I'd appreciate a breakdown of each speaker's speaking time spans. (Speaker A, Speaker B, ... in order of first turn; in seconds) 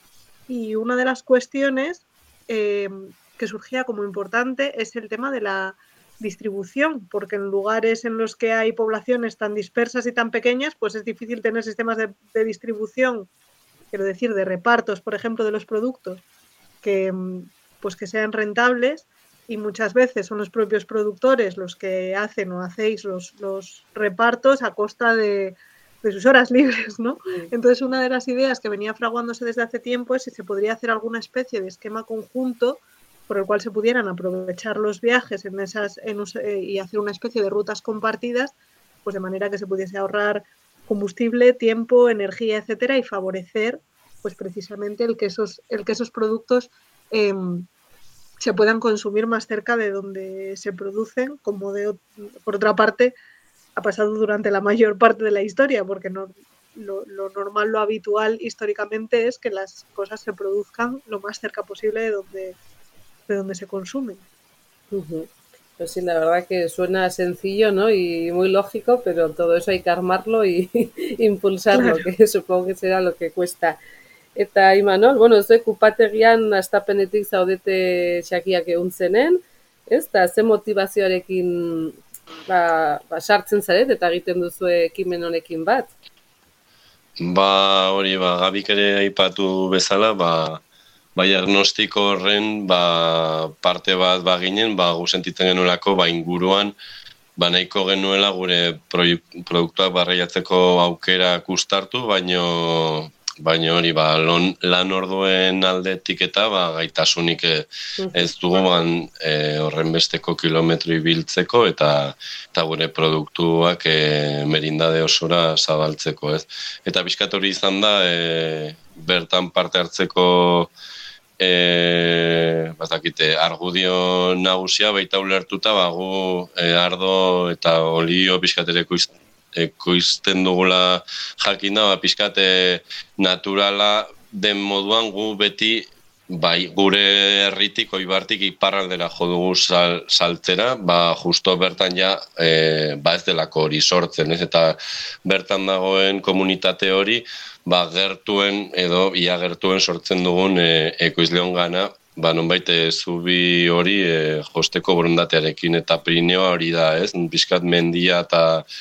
Speaker A: 0.5-13.3, 13.9-16.2, 16.8-47.6, 48.4-53.1, 53.8-62.6, 63.3-64.2, 71.7-72.0
Speaker B: 64.9-65.3, 65.8-73.8, 74.3-81.9, 82.5-85.9, 108.0-108.3
Speaker C: 87.2-90.6, 91.2-96.8, 97.4-120.7, 121.4-158.6